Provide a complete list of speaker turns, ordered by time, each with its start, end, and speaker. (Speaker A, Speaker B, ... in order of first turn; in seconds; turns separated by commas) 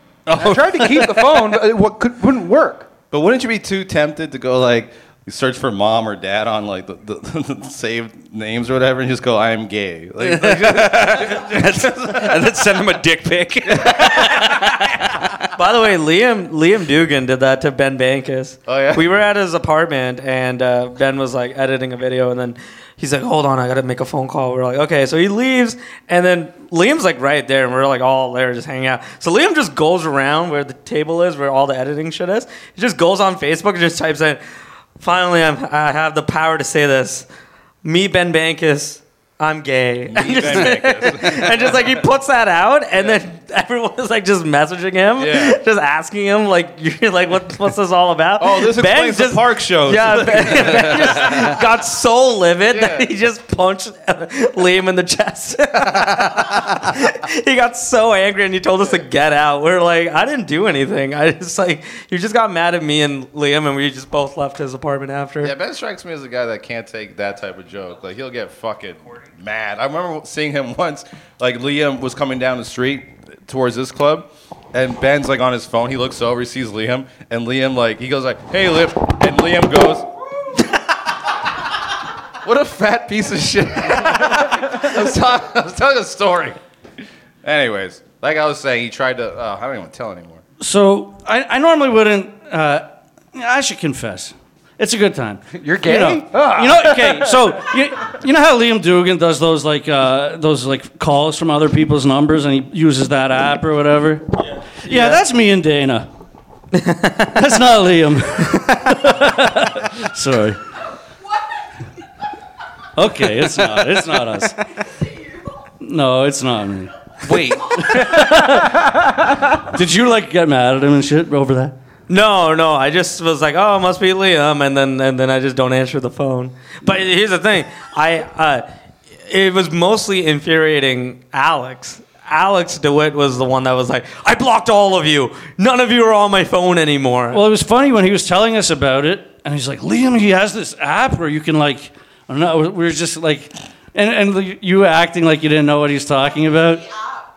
Speaker A: 0.2-1.5, Speaker B: 0.3-2.9, Speaker C: 3.1-12.5, Speaker A: 10.2-14.9, Speaker C: 13.7-15.3, Speaker D: 15.5-34.4, Speaker C: 18.7-19.1, Speaker D: 35.0-37.3, Speaker D: 37.8-65.5, Speaker C: 40.1-42.0, Speaker C: 45.2-45.6, Speaker C: 48.4-51.6, Speaker C: 52.7-53.1, Speaker C: 65.4-80.1, Speaker C: 82.4-86.6, Speaker C: 87.4-90.4, Speaker E: 90.6-104.3, Speaker B: 95.5-97.6, Speaker E: 104.8-106.1, Speaker D: 104.9-105.1, Speaker D: 106.7-107.3, Speaker E: 107.3-110.6, Speaker E: 113.0-114.6, Speaker E: 115.8-121.7, Speaker A: 117.2-117.8, Speaker D: 122.1-128.7, Speaker D: 129.2-137.4, Speaker E: 137.3-146.9